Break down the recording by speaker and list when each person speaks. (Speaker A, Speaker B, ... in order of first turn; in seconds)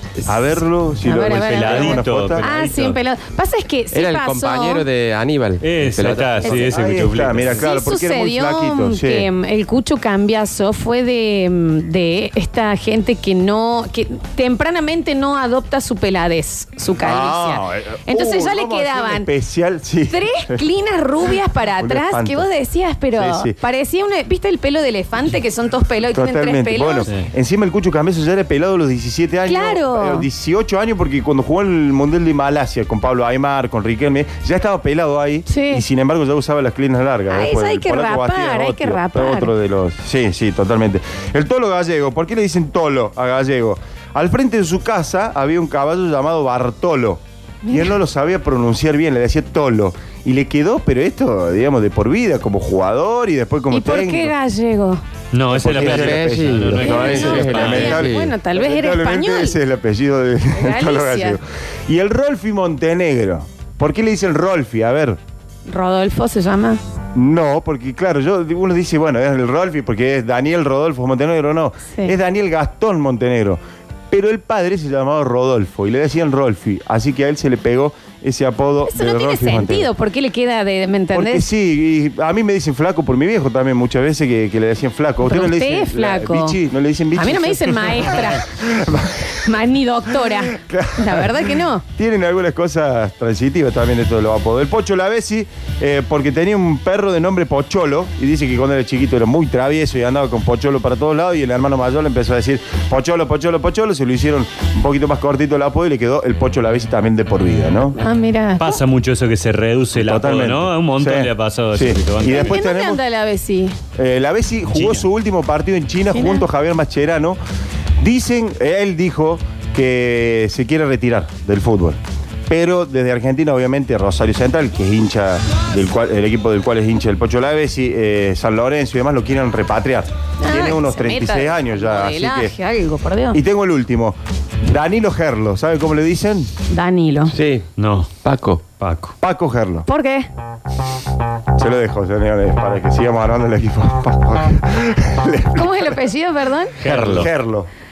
Speaker A: 0.3-2.5, 6.6-9.3, 17.0-20.6, 21.8-22.5, 23.2-23.6, 26.1-54.3, 55.5-65.2, 67.1-73.6, 74.1-79.9, 81.1-89.5, 90.2-108.0, 109.9-113.0, 114.0-117.4, 118.0-132.5, 133.3-136.5, 139.2-139.9, 141.6-146.0, 146.8-147.7
Speaker B: 1.1-4.8, 7.5-19.3, 20.1-27.1, 29.4-30.2, 35.5-35.9, 37.3-39.5, 47.6-47.9, 53.7-55.0, 56.8-59.6, 60.5-61.4, 65.7-66.8, 78.9-81.4, 85.2-86.6, 87.2-88.4, 89.4-91.8, 108.0-108.8, 112.3-113.8, 116.1-116.4, 130.4-133.4, 136.7-137.3, 139.9-140.3, 145.5-146.8
Speaker C: 1.2-3.0, 5.6-7.6, 55.3-58.0, 108.6-112.5, 114.7-115.0, 137.8-138.1, 138.8-139.1, 146.8-147.3
Speaker D: 3.9-6.7, 55.7-58.3, 137.3-137.7, 138.2-138.6